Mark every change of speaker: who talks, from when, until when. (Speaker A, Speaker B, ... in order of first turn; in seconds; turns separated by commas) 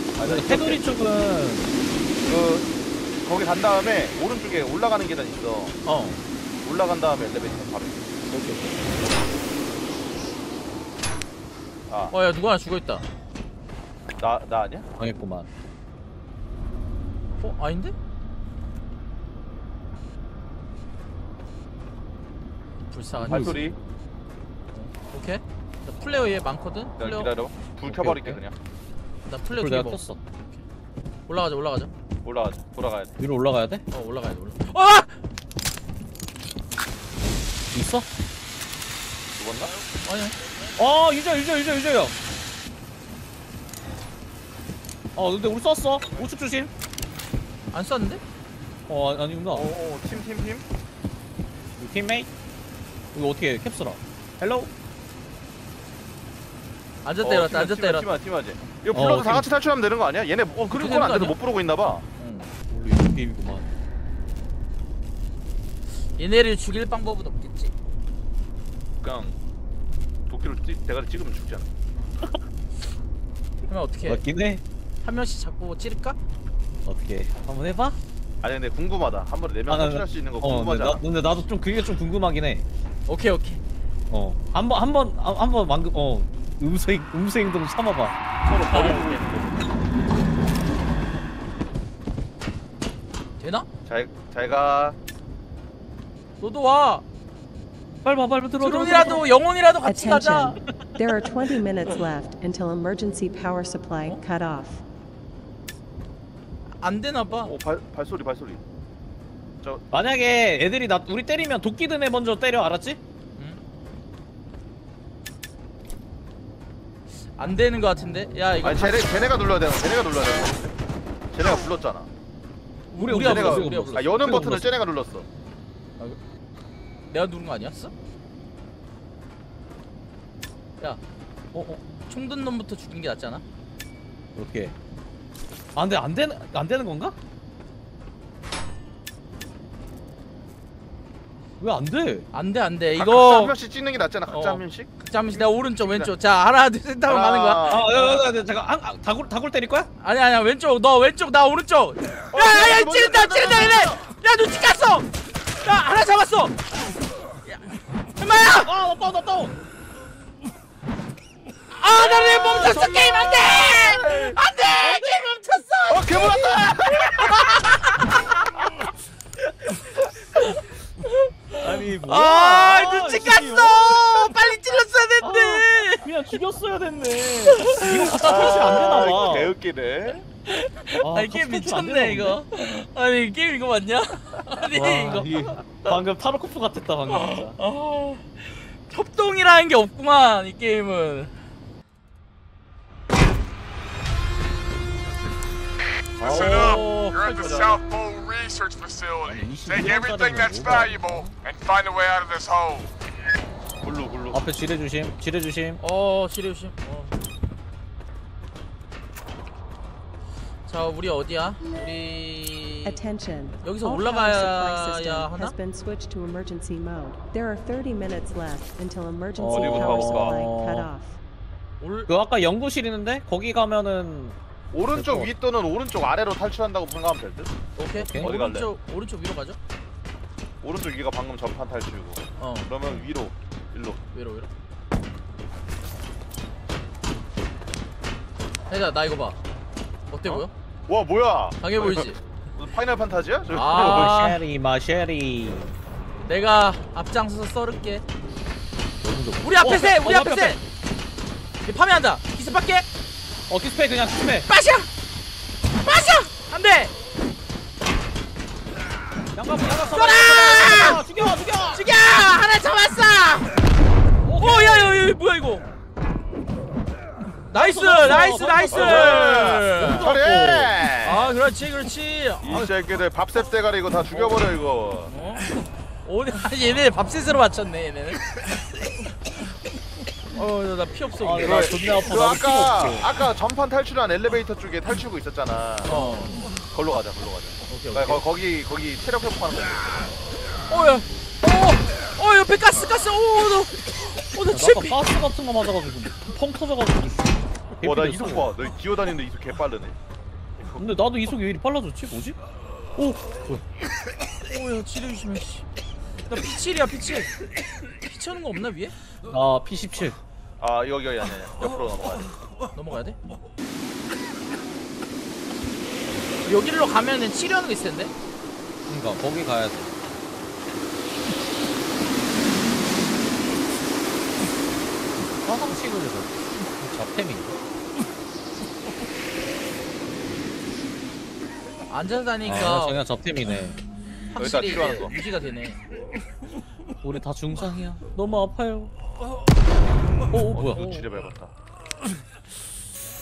Speaker A: 0.2-0.8, Speaker B: 0.2-1.7, Speaker A: 2.2-5.8, Speaker C: 5.8-6.2, Speaker A: 6.6-8.1, Speaker C: 8.3-8.7, Speaker A: 11.9-12.1, Speaker C: 12.1-13.0, Speaker A: 14.2-14.9, Speaker B: 15.0-15.6, Speaker C: 17.4-17.9, Speaker C: 22.9-23.7, Speaker B: 23.2-23.6, Speaker A: 23.3-23.8, Speaker C: 24.7-27.3, Speaker A: 27.0-28.6, Speaker B: 27.8-28.4, Speaker C: 29.2-30.6, Speaker B: 29.5-30.2, Speaker C: 31.3-31.9, Speaker A: 32.2-33.1, Speaker B: 33.2-33.8, Speaker C: 33.9-35.1, Speaker B: 37.7-38.1, Speaker A: 39.4-39.8, Speaker C: 40.0-40.4, Speaker B: 40.8-42.1, Speaker B: 45.1-46.7, Speaker C: 47.7-48.2, Speaker B: 48.9-49.7, Speaker A: 49.5-50.6, Speaker B: 51.8-52.3, Speaker B: 53.1-54.7, Speaker C: 57.0-58.1, Speaker A: 57.2-62.0, Speaker B: 58.9-59.5, Speaker C: 60.7-61.4, Speaker C: 62.2-62.5, Speaker B: 62.7-63.7, Speaker C: 66.2-67.7, Speaker A: 69.0-69.4, Speaker A: 70.3-71.7, Speaker C: 73.7-74.2, Speaker B: 74.0-74.6, Speaker C: 75.0-76.2, Speaker B: 76.8-78.0, Speaker A: 78.4-81.0, Speaker B: 79.7-82.7, Speaker C: 83.1-83.6, Speaker B: 84.1-88.2, Speaker A: 88.4-89.7, Speaker C: 88.5-89.3, Speaker C: 93.4-93.7, Speaker A: 93.8-95.0, Speaker C: 96.4-97.0, Speaker B: 98.0-99.3, Speaker C: 98.6-100.6, Speaker D: 99.8-104.8, Speaker C: 106.8-107.5, Speaker A: 107.3-108.6, Speaker B: 109.9-113.0, Speaker C: 117.2-119.1, Speaker A: 118.6-120.8, Speaker A: 121.3-122.1, Speaker C: 122.9-124.5, Speaker B: 123.0-124.8, Speaker A: 123.1-125.3, Speaker C: 127.1-127.9, Speaker B: 131.5-131.8, Speaker C: 132.1-133.4, Speaker B: 134.3-134.7, Speaker B: 135.7-137.2, Speaker B: 141.6-142.3, Speaker C: 142.3-143.5, Speaker A: 142.9-146.1, Speaker C: 144.3-148.0, Speaker A: 147.1-148.2, Speaker B: 147.6-149.9, Speaker C: 150.0-156.6, Speaker A: 152.3-154.0, Speaker C: 157.5-158.7, Speaker B: 158.4-159.5, Speaker C: 161.7-168.4, Speaker A: 161.9-164.4, Speaker B: 162.6-162.9, Speaker B: 164.8-165.3, Speaker A: 165.9-167.5, Speaker C: 170.3-176.1, Speaker B: 171.6-174.3, Speaker B: 175.2-179.5, Speaker C: 177.4-179.0, Speaker A: 178.1-180.2, Speaker C: 180.5-185.7, Speaker B: 181.0-182.4, Speaker B: 184.6-187.6, Speaker C: 187.1-191.3, Speaker B: 196.2-197.2, Speaker E: 196.2-202.9, Speaker C: 196.2-197.8, Speaker B: 199.2-201.3, Speaker A: 203.8-204.4, Speaker B: 204.3-205.8, Speaker C: 205.8-207.2, Speaker C: 210.7-213.0, Speaker D: 212.8-221.2, Speaker C: 213.6-215.5, Speaker B: 219.3-220.9, Speaker A: 219.5-220.5, Speaker C: 221.8-222.1, Speaker B: 222.1-225.3, Speaker A: 224.7-227.6, Speaker C: 227.8-229.6, Speaker B: 227.9-228.3, Speaker A: 228.1-228.7, Speaker A: 230.6-234.0, Speaker C: 232.4-233.0, Speaker C: 234.1-234.5, Speaker C: 238.7-239.4, Speaker C: 240.1-240.5, Speaker A: 240.2-244.3, Speaker C: 241.6-242.2, Speaker C: 243.5-244.4, Speaker B: 243.6-245.7, Speaker C: 246.2-248.0, Speaker B: 249.0-250.6, Speaker C: 249.4-250.6, Speaker C: 251.7-252.8, Speaker B: 253.5-254.5, Speaker C: 254.5-254.9, Speaker C: 255.8-256.9, Speaker B: 259.3-261.9, Speaker C: 259.7-261.0, Speaker C: 261.7-263.5, Speaker B: 264.2-265.0, Speaker C: 264.4-265.6, Speaker C: 267.4-270.2, Speaker B: 267.5-270.9, Speaker A: 268.7-271.3, Speaker C: 271.0-272.7, Speaker A: 272.4-275.1, Speaker C: 275.1-275.5, Speaker C: 276.0-278.2, Speaker C: 280.3-282.1, Speaker B: 281.2-283.1, Speaker A: 281.4-286.1, Speaker C: 285.8-286.5, Speaker A: 286.7-290.2, Speaker C: 287.7-288.2, Speaker C: 290.7-295.0, Speaker B: 294.5-298.5, Speaker A: 297.8-300.0, Speaker B: 300.8-302.4, Speaker B: 302.9-303.6, Speaker C: 304.5-305.6, Speaker C: 306.3-307.3, Speaker C: 308.0-308.9, Speaker B: 309.3-310.2, Speaker A: 310.6-312.4, Speaker C: 312.7-313.2, Speaker C: 316.4-318.1, Speaker B: 318.9-319.9, Speaker B: 325.1-327.5, Speaker C: 331.9-333.0, Speaker B: 332.4-333.8, Speaker C: 334.3-335.8, Speaker A: 334.4-335.1, Speaker B: 337.0-338.9, Speaker B: 340.3-341.0, Speaker A: 340.5-341.5, Speaker C: 340.8-341.0